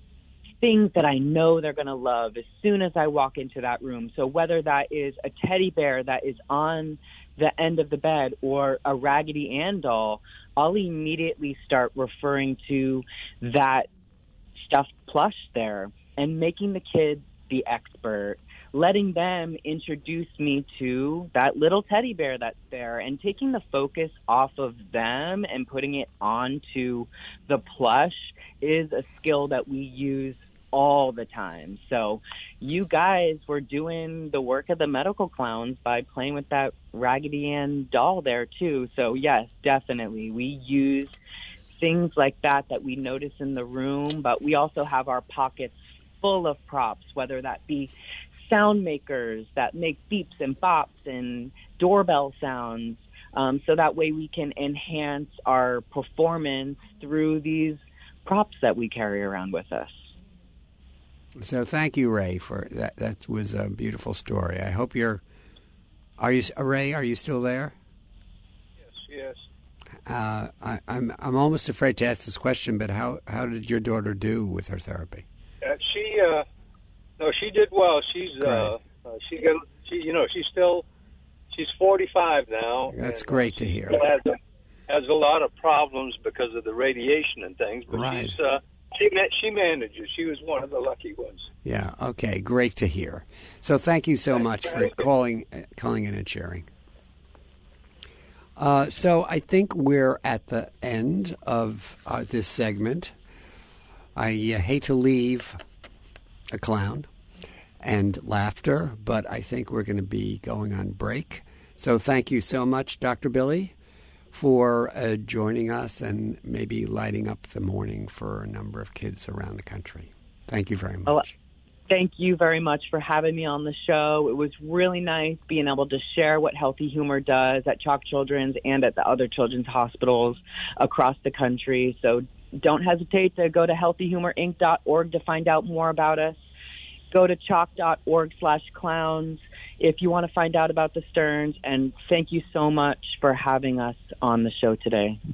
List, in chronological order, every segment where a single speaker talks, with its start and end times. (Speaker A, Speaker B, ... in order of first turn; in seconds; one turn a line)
Speaker A: 0.6-13.9
Speaker A: 14.6-41.1
Speaker A: 41.7-60.1
Speaker B: 61.4-65.2
Speaker B: 66.2-67.8
Speaker C: 68.8-69.4
Speaker B: 70.1-75.2
Speaker C: 75.6-76.4
Speaker C: 77.2-80.8
Speaker B: 78.4-78.7
Speaker C: 81.5-84.4
Speaker B: 82.9-84.0
Speaker C: 84.9-91.5
Speaker B: 87.9-88.3
Speaker B: 91.6-96.7
Speaker B: 98.6-103.1
Speaker B: 104.1-105.6
Speaker B: 106.5-107.1
Speaker B: 107.8-113.7
Speaker B: 114.3-121.3
Speaker A: 121.9-136.4
Speaker A: 137.1-145.2